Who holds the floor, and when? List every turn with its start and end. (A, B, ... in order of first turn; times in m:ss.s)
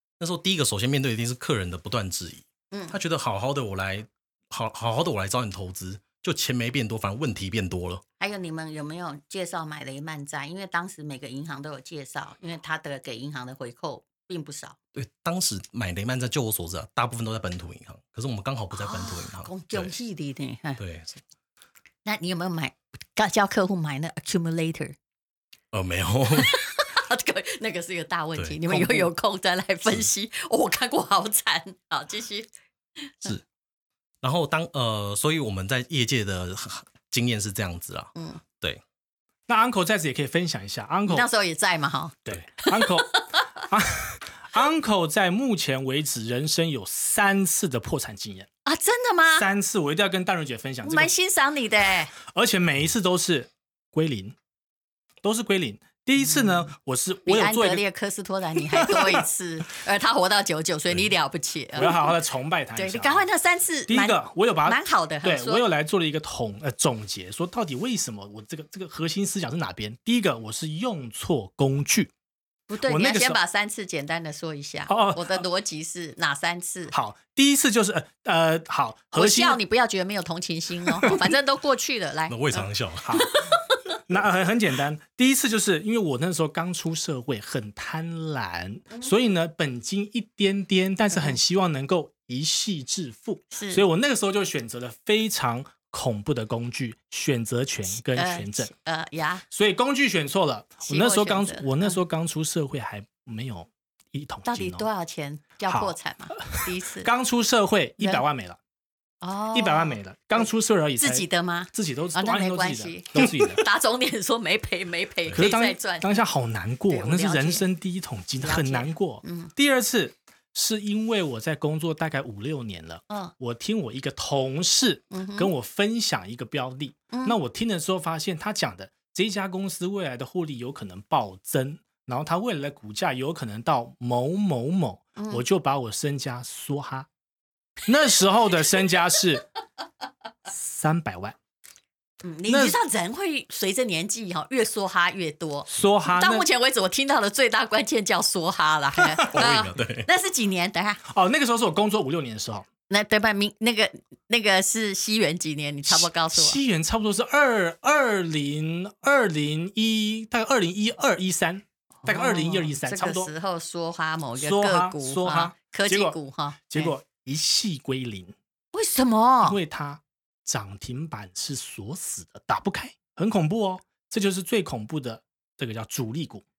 0:00.2-0:08.0 A
0:02.7-0:03.0 B
0:08.2-0:14.8 B
0:14.9-0:19.9 A
0:18.7-0:20.8 B
0:20.8-0:21.2 A
0:22.0-0:25.0 B
0:25.7-0:26.6 A
0:26.4-0:32.5 B
0:28.4-0:29.1 A
0:33.0-0:33.4 B
0:34.2-0:38.8 A
0:38.2-0:38.4 B
0:39.5-0:41.3 C
0:41.1-0:43.6 B
0:42.3-0:48.5 C
0:48.6-0:49.5 B
0:49.3-0:51.1 C
0:50.8-0:52.1 B
0:52.2-0:54.3 C
0:55.2-0:57.8 C
0:56.2-0:56.7 B
0:57.2-1:02.2 B
0:58.6-0:59.2 C
1:01.7-1:03.2 C
1:02.7-1:05.6 B
1:03.9-1:12.1 C
1:12.7-1:16.9 B
1:12.8-1:13.4 C
1:14.9-1:15.4 C
1:16.9-1:19.6 C
1:19.1-1:23.8 B
1:20.8-1:21.2 C
1:22.3-1:23.1 A
1:23.0-1:23.4 C
1:24.1-1:38.7 C
1:31.1-1:31.4 B
1:33.5-1:33.8 B
1:37.9-1:39.4 B
1:39.5-1:44.8 C
1:40.8-1:42.0 B
1:44.4-1:47.1 B
1:45.7-1:48.6 C
1:49.2-1:50.5 B
1:49.5-1:53.6 C
1:51.0-1:56.2 B
1:55.3-2:17.1 C
1:56.9-1:57.6 B
1:58.4-1:59.5 B
2:05.1-2:05.5 B
2:07.1-2:07.4 B
2:15.2-2:15.4 B
2:17.8-2:19.5 C
2:20.4-2:21.4 C
2:22.2-2:31.0 B
2:22.5-2:22.8 C
2:25.7-2:26.4 C
2:29.3-2:30.1 A
2:31.1-2:32.7 C
2:32.9-2:36.6 B
2:35.9-2:43.3 C
2:42.0-2:46.9 B
2:44.4-2:46.2 C
2:46.7-2:48.3 C
2:48.7-2:49.6 B
2:49.4-2:56.4 C